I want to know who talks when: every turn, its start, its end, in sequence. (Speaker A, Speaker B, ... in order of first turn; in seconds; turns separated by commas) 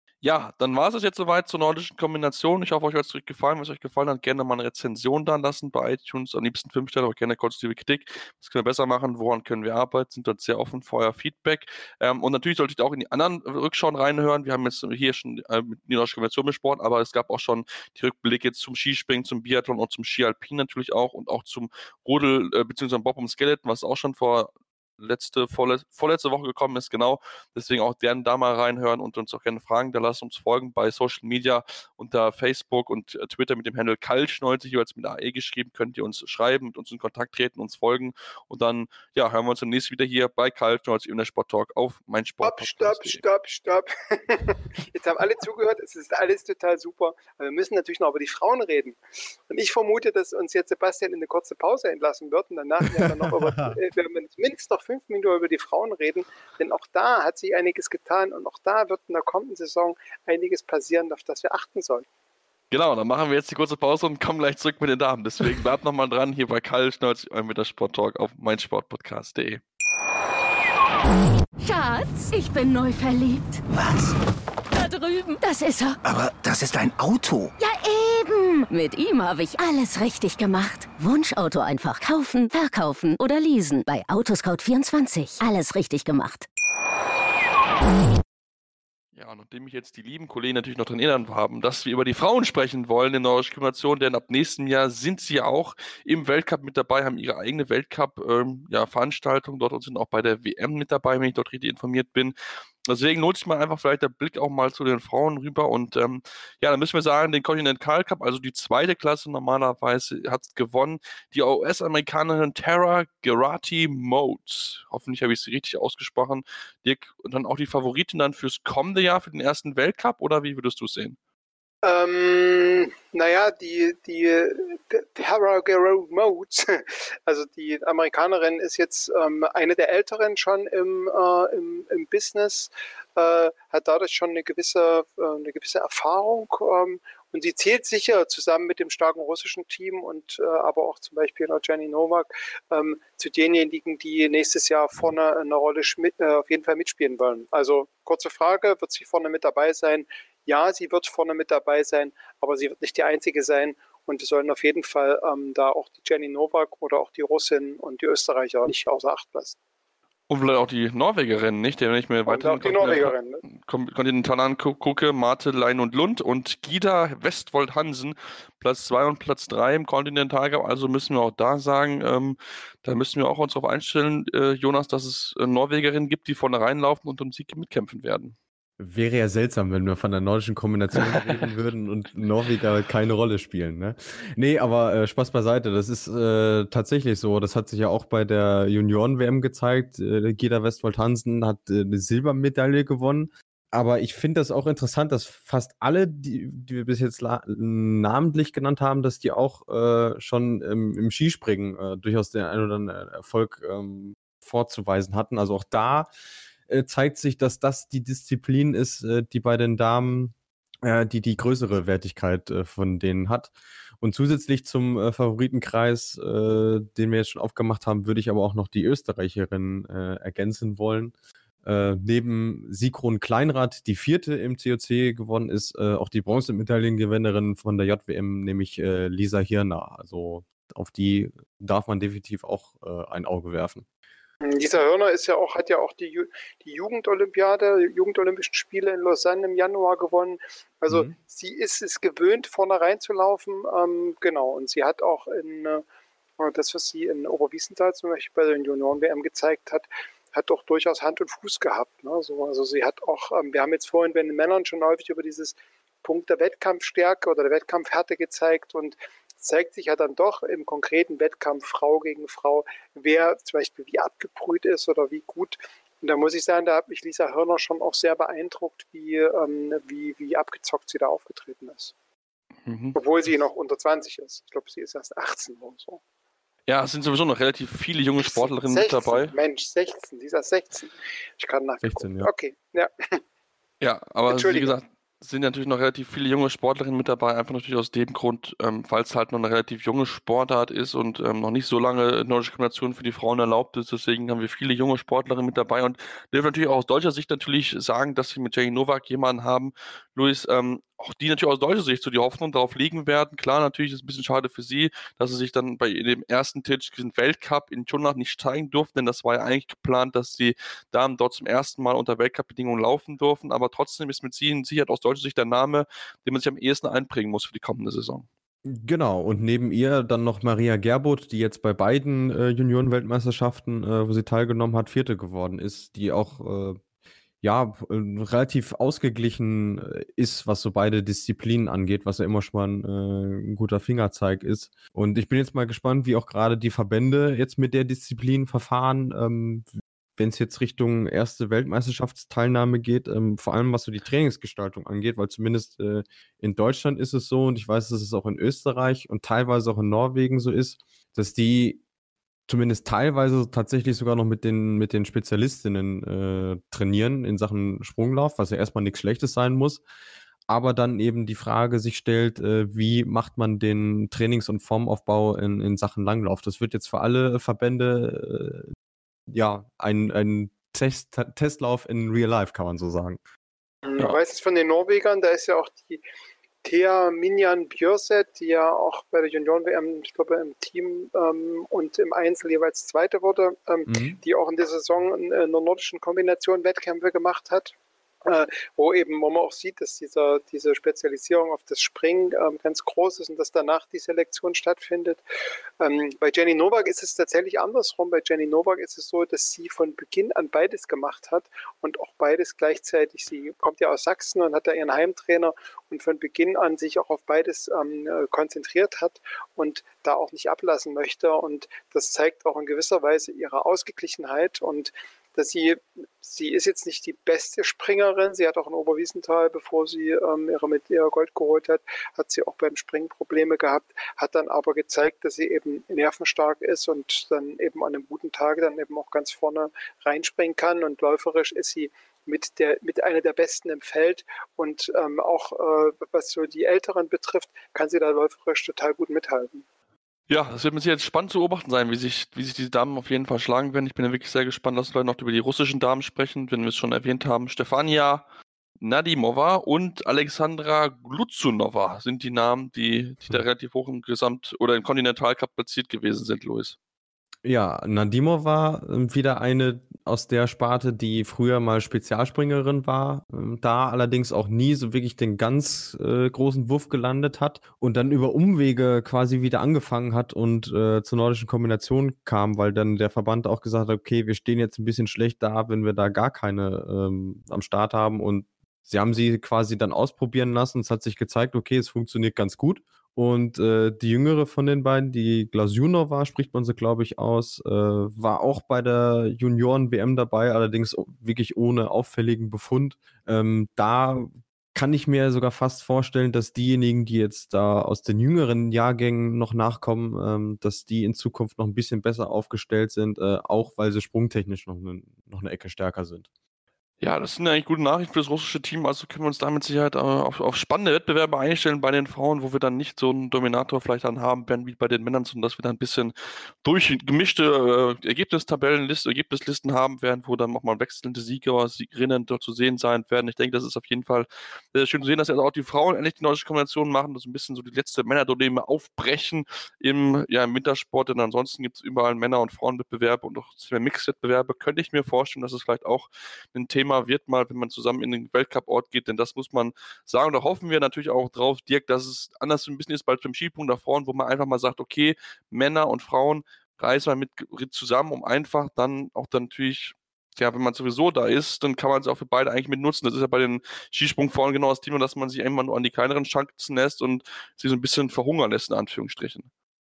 Speaker A: 0.2-43.2, Speaker B: 42.4-62.1, Speaker C: 53.0-53.8, Speaker A: 62.7-69.6, Speaker D: 71.6-73.6, Speaker E: 73.7-74.2, Speaker D: 74.7-76.0, Speaker E: 76.0-77.5, Speaker D: 77.6-86.5, Speaker A: 89.2-102.3, Speaker A: 102.9-121.2, Speaker B: 121.8-159.6, Speaker A: 160.3-178.3, Speaker B: 162.3-163.4, Speaker C: 178.8-206.1, Speaker C: 206.7-233.8, Speaker B: 234.4-245.8, Speaker C: 240.9-241.2, Speaker B: 246.4-271.9, Speaker A: 272.7-273.0, Speaker B: 272.9-276.0, Speaker A: 276.7-279.3, Speaker B: 278.2-283.2, Speaker C: 281.8-282.3, Speaker A: 283.8-318.3, Speaker B: 284.3-284.7, Speaker C: 318.7-326.8, Speaker C: 327.4-351.8, Speaker C: 352.5-359.8, Speaker C: 360.5-368.7, Speaker C: 369.3-373.2, Speaker B: 373.9-376.0, Speaker B: 376.6-395.2, Speaker C: 383.9-384.2, Speaker B: 395.8-439.6, Speaker A: 440.3-448.2, Speaker A: 448.8-456.8, Speaker C: 457.4-506.3, Speaker A: 507.0-559.5